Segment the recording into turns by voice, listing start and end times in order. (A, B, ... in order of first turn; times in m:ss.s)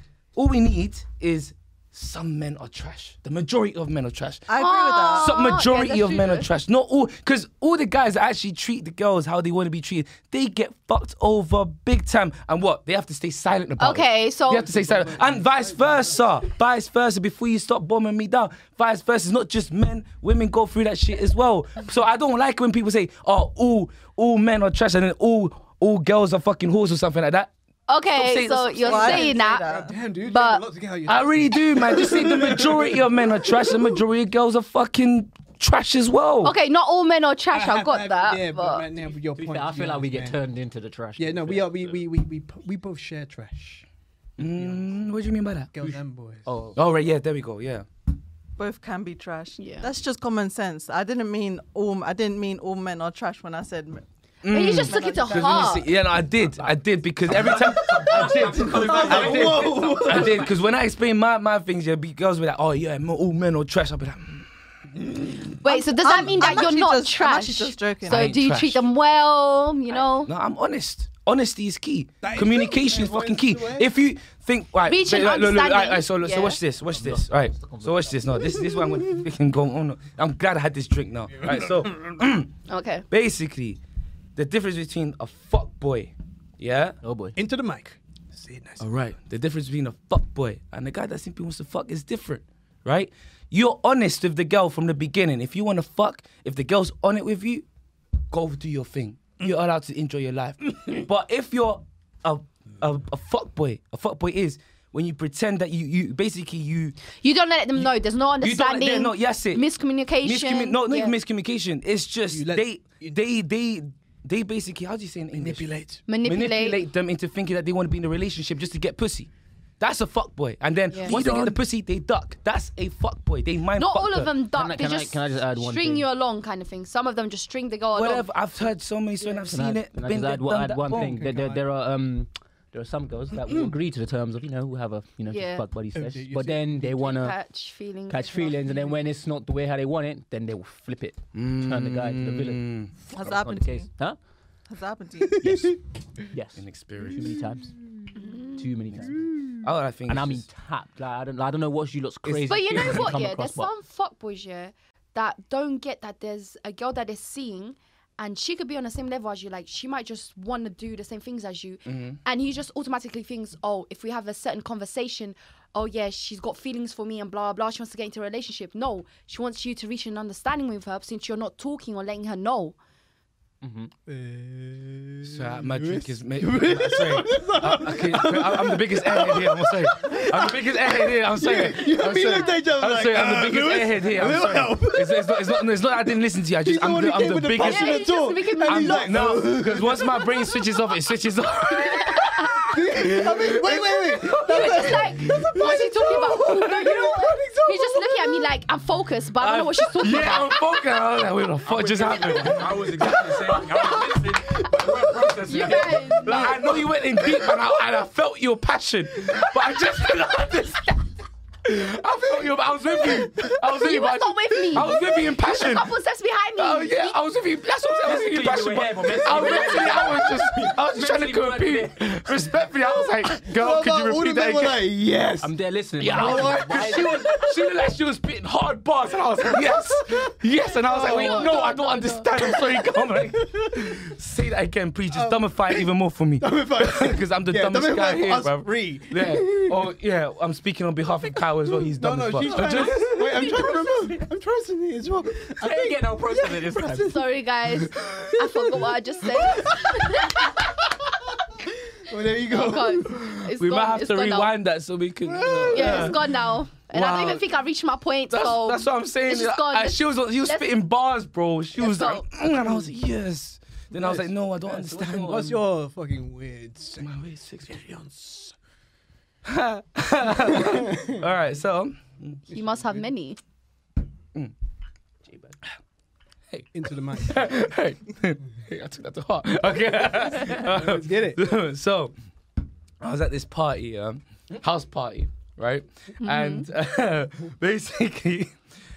0:00.4-0:04.5 A
0:04.5-0:05.3 B
0:04.6-0:06.5 C
0:05.1-0:27.5 A
0:13.8-0:14.8 C
0:14.7-0:16.4 D
0:27.9-0:29.7 C
0:28.2-0:30.0 B
0:29.7-0:34.0 D
0:30.2-0:30.6 C
0:31.1-0:36.6 A
0:36.4-0:38.9 C
0:37.5-0:40.4 D
0:39.4-0:42.0 E
0:41.2-0:43.9 D
0:44.4-0:45.7 A
0:44.4-0:45.0 D
0:45.7-0:46.5 D
0:45.8-0:46.8 E
0:46.8-0:47.8 A
0:48.6-0:54.0 B
0:49.6-0:49.9 C
0:54.4-1:04.5 A
0:54.5-0:55.9 C
0:54.8-0:55.7 B
0:57.3-1:00.5 E
0:58.1-0:59.3 F
0:58.6-1:00.5 D
1:05.0-1:05.6 D
1:05.6-1:10.3 C
1:05.7-1:08.4 B
1:08.1-1:08.9 A
1:10.2-1:22.5 A
1:12.2-1:13.9 D
1:14.9-1:16.6 C
1:16.9-1:18.4 E
1:21.4-1:21.9 D
1:22.7-1:23.0 C
1:23.1-1:23.8 A
1:24.4-1:27.0 A
1:27.0-1:27.4 E
1:27.4-1:28.8 D
1:28.8-1:37.7 A
1:38.3-1:47.0 A
1:47.1-1:51.2 C
1:47.8-1:49.6 A
1:50.2-1:59.3 A
1:52.3-1:53.2 D
1:55.4-1:56.0 D
1:56.1-1:56.8 C
1:59.8-2:04.4 A
2:00.9-2:01.2 C
2:01.1-2:01.6 E
2:03.8-2:08.3 C
2:04.5-2:06.1 E
2:07.9-2:11.2 A
2:09.4-2:17.4 E
2:10.9-2:11.7 D
2:15.3-2:15.7 C
2:15.9-2:17.1 D
2:17.0-2:18.9 C
2:18.1-2:24.2 E
2:21.3-2:22.9 A
2:23.1-2:23.9 B
2:24.7-2:25.6 B
2:25.4-2:25.8 D
2:25.5-2:25.7 E
2:26.3-2:27.8 E
2:26.6-2:27.4 A
2:28.2-2:28.7 C
2:28.5-2:29.5 E
2:29.4-2:30.5 A
2:30.1-2:33.7 E
2:32.4-2:52.8 C
2:41.9-2:42.2 A
2:53.6-2:53.9 E
2:54.1-3:05.8 D
2:55.2-3:17.1 A
3:06.6-3:10.5 D
3:07.6-3:09.1 C
3:11.7-3:12.7 C
3:12.7-3:18.5 D
3:14.3-3:20.6 C
3:19.4-3:23.8 A
3:21.7-3:26.5 F
3:21.7-3:23.6 E
3:25.0-3:25.9 E
3:25.4-3:26.6 C
3:26.2-3:31.1 A
3:31.6-3:35.9 A
3:33.4-3:37.2 C
3:36.6-3:44.8 A
3:38.0-3:42.1 E
3:43.4-3:45.6 D
3:45.4-3:47.3 E
3:46.0-4:03.2 A
3:46.1-3:47.5 D
3:50.9-3:51.6 D
3:50.9-3:52.2 C
3:52.7-3:54.0 D
3:55.1-3:59.9 D
4:01.8-4:07.2 D
4:02.5-4:04.2 E
4:05.6-4:07.2 E
4:06.9-4:10.6 C
4:07.9-4:10.0 D
4:12.0-4:13.3 D
4:12.5-4:14.5 C
4:13.2-4:16.4 A
4:15.2-4:16.3 D
4:15.7-4:20.7 C
4:16.9-4:17.4 A
4:18.3-4:25.6 A
4:21.8-4:22.3 C
4:24.0-4:24.3 D
4:24.7-4:25.4 E
4:24.8-4:27.1 D
4:27.0-4:27.9 A
4:27.6-4:28.6 D
4:29.4-4:32.4 A
4:30.4-4:31.2 D
4:32.5-4:33.4 C
4:32.5-4:33.1 D
4:35.3-4:35.6 E
4:36.5-4:42.2 A
4:36.7-4:37.6 D
4:40.3-4:41.4 D
4:43.0-4:48.6 A
4:46.2-4:46.7 C